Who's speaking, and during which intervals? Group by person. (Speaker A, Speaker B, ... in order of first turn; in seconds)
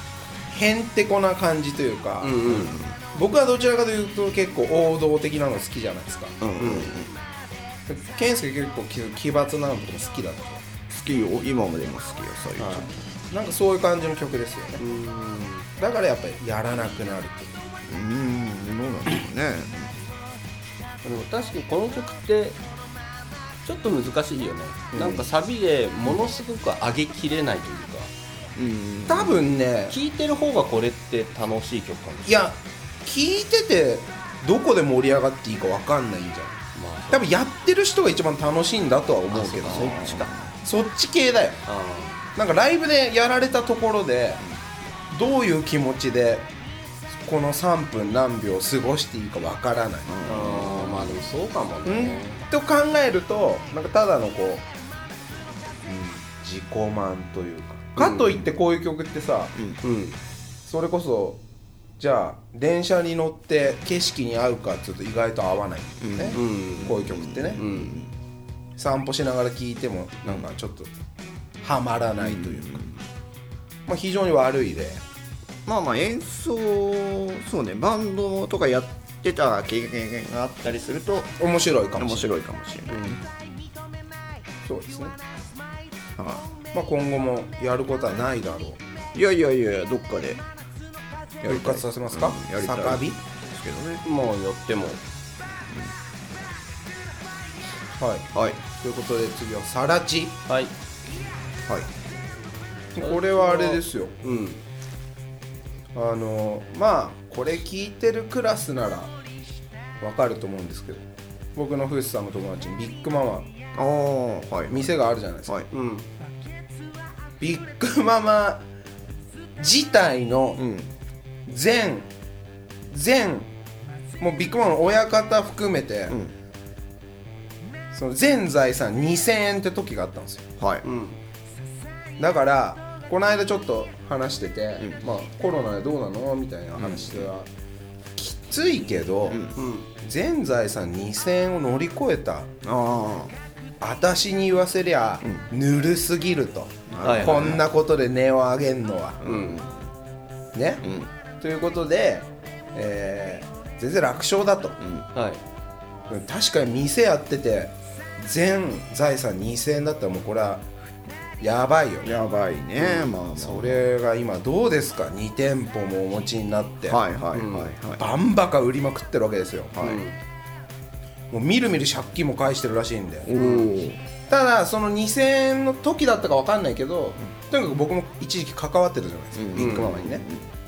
Speaker A: 0.5-2.4, 3.1-6.4, 7.9-10.6, 12.6-14.8, 15.8-17.6, 24.9-25.2, 29.1-29.9, 32.2-36.6, 37.1-40.0, 40.6-41.6, 42.3-44.4, 45.1-46.5, 47.2-50.1, 51.8-54.6, 56.3-59.5, 60.6-61.4, 62.0-67.6, 68.8-70.9, 71.6-72.8, 73.9-75.0, 81.4-82.3, 84.6-85.1, 86.7-88.8, 91.4-93.2, 98.0-100.3, 102.9-104.1, 105.9-109.1, 110.0-113.5, 114.7-115.6, 117.4-118.7, 119.6-120.6, 121.5-122.1, 122.9-123.5, 124.2-126.2, 127.9-130.5, 132.2-137.5, 138.2-142.5, 143.8-149.2, 150.5-154.8, 156.1-160.7, 161.4-162.2, 163.2-167.0, 167.8-169.8, 171.3-173.3, 174.3-180.2
Speaker B: 2.2-2.8, 6.6-7.1, 14.8-15.7, 21.0-22.6, 23.6-28.1, 29.9-32.5, 36.7-37.3, 39.3-40.3, 41.6-42.2, 50.2-52.4, 58.0-58.5, 59.8-60.2, 66.3-67.0, 67.5-68.0, 82.9-83.2, 94.0-95.0, 100.5-100.7, 103.0-104.6, 115.7-116.1, 130.8-131.2, 139.5-139.9, 147.0-147.6, 149.2-149.6, 155.1-155.4, 162.8-163.2, 167.3-167.8, 169.8-170.2, 173.4-173.7, 179.5-180.0
Speaker C: 2.4-3.0, 6.4-7.1, 10.9-13.0, 17.9-20.0, 25.0-25.3, 28.6-29.4, 39.6-40.5, 50.1-51.3, 55.9-56.2, 59.5-59.8, 66.0-68.1, 72.2-73.0, 75.7-81.4, 82.0-83.2, 86.2-86.5, 89.1-90.4, 91.4-94.0, 98.3-98.6, 113.7-115.7, 120.6-120.9, 126.1-126.3, 130.6-130.8, 136.8-137.3, 142.6-143.3, 145.2-145.5, 146.9-147.7, 149.2-149.9, 150.8-151.1, 154.8-155.1, 162.0-163.8, 166.9-168.0, 169.7-170.0, 173.2-174.0, 179.3-180.5